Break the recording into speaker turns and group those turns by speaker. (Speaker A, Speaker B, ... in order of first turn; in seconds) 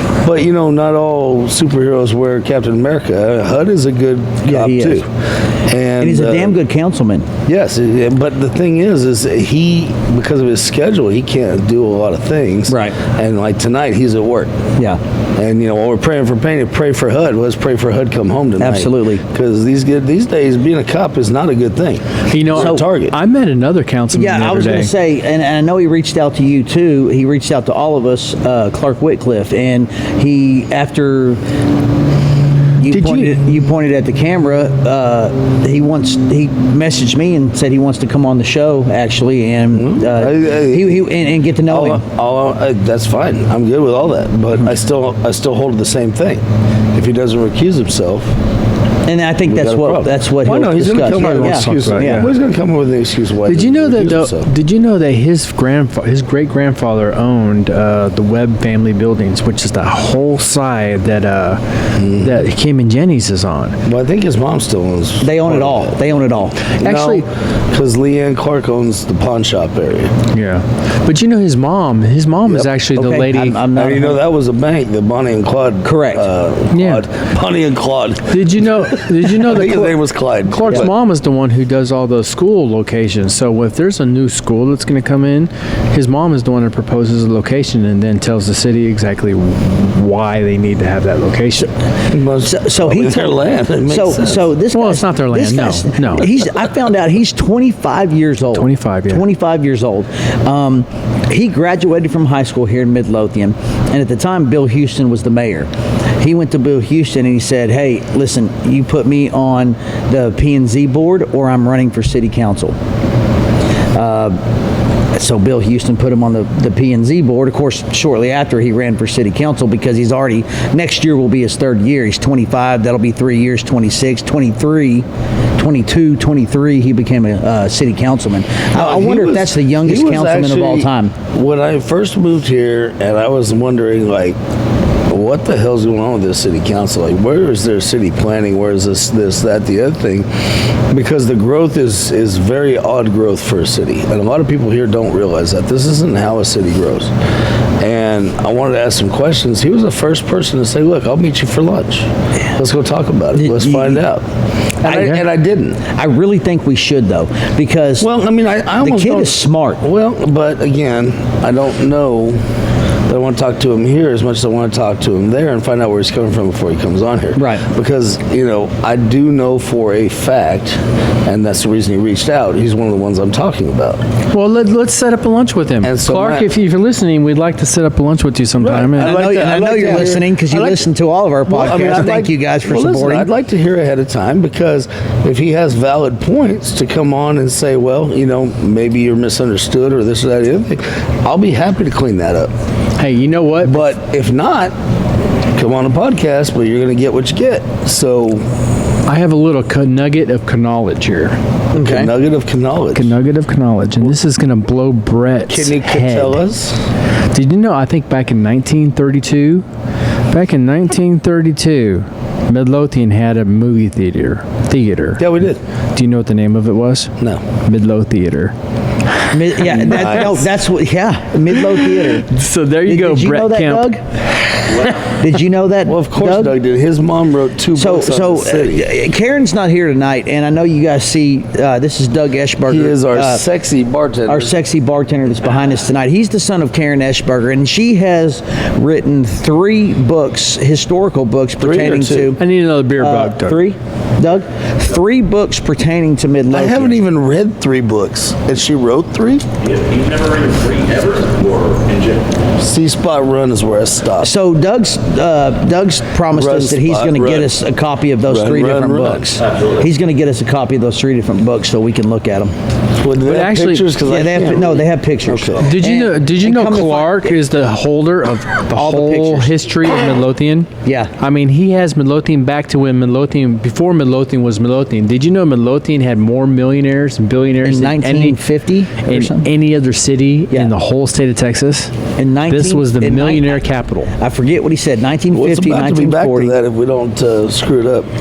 Speaker A: 0.2-6.6, 7.5-14.6, 15.4-23.2, 39.7-41.1, 41.6-48.4, 49.5-54.5, 62.0-62.4, 63.9-66.0, 66.8-70.1, 72.5-72.8, 73.8-80.9, 92.1-94.5, 128.7-134.4, 135.1-140.3, 140.9-147.1, 147.8-154.3, 154.8-155.8, 158.0-162.4, 163.1-174.0, 175.8-176.5, 178.6-180.8, 181.5-192.5, 193.6-194.8, 195.6-198.4, 201.8-203.2, 205.5-206.8, 215.2-215.6, 219.8-220.5, 225.9-228.9, 232.7-234.5, 241.6-242.4, 246.5-249.5, 252.6-254.3, 256.3-257.6, 258.3-259.4, 263.0-265.7, 285.3-288.1
Speaker B: 4.5-5.0, 6.0-7.3, 12.7-13.0, 18.6-19.2, 22.6-22.8, 24.1-31.4, 32.8-42.0, 49.1-52.3, 65.2-66.7, 72.9-74.2, 75.8-76.3, 92.4-112.8, 113.9-114.4, 115.1-125.1, 125.6-131.2, 153.3-154.0, 155.9-158.1, 158.8-159.8, 167.4-167.7, 178.9-183.3, 201.7-202.1, 219.3-222.3, 222.9-224.0, 225.0-226.6, 227.8-233.4, 234.3-242.4, 243.0-247.0, 254.2-262.5, 264.0-267.3, 268.8-269.5, 270.9-271.1, 277.6-279.5, 282.2-283.6, 284.1-286.6
Speaker C: 22.3-24.9, 32.9-33.4, 51.0-52.3, 53.5-63.8, 66.7-67.2, 70.3-73.6, 76.7-77.0, 78.3-91.7, 94.7-96.3, 98.5-99.2, 154.8-155.2, 174.3-179.2, 193.0-193.8, 199.1-201.4, 202.9-206.4, 207.3-209.6, 210.3-215.2, 215.9-217.1, 217.7-218.5, 219.6-220.3, 221.6-225.0, 242.2-243.6, 263.2-264.0, 265.6-278.4, 279.0-281.9, 282.5-284.1
Speaker D: 249.7-252.2